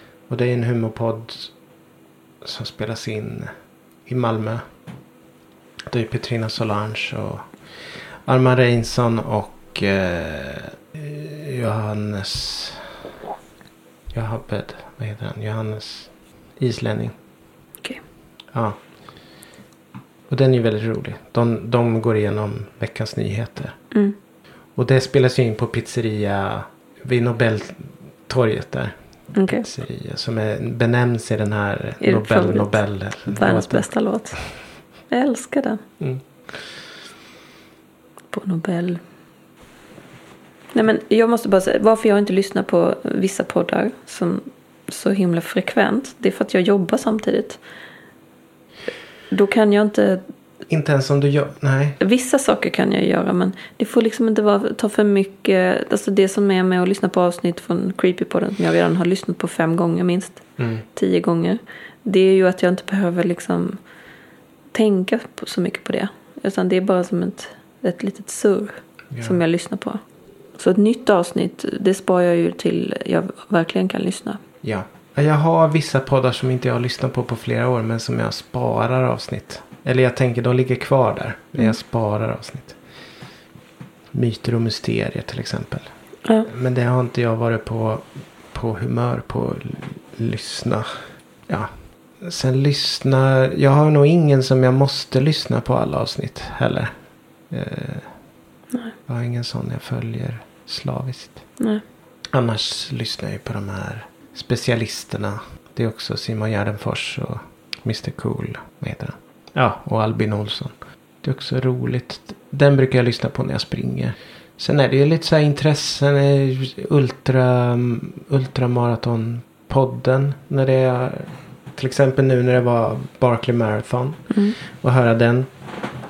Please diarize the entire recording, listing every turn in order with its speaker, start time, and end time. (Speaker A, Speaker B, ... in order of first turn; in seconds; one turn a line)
Speaker A: 0.3-1.5
Speaker A: 2.4-3.5
Speaker A: 4.0-4.6
Speaker A: 5.9-13.0
Speaker A: 14.1-17.1
Speaker A: 18.5-18.8
Speaker A: 20.3-23.7
Speaker A: 24.8-28.9
Speaker B: 29.3-29.7
Speaker A: 29.5-33.9
Speaker B: 32.0-34.4
Speaker B: 35.1-35.8
Speaker A: 36.0-36.6
Speaker B: 38.3-39.0
Speaker B: 40.7-47.6
Speaker B: 49.3-50.2
Speaker A: 50.7-52.0
Speaker B: 52.0-60.4
Speaker A: 60.6-60.8
Speaker B: 60.9-63.8
Speaker B: 64.7-70.0
Speaker A: 69.1-69.4
Speaker B: 70.6-74.4
Speaker A: 74.6-82.8
Speaker A: 84.1-85.9
Speaker A: 86.4-90.9
Speaker A: 91.5-96.9
Speaker A: 97.5-98.1
Speaker A: 99.1-101.4
Speaker A: 102.3-125.5
Speaker B: 124.3-124.6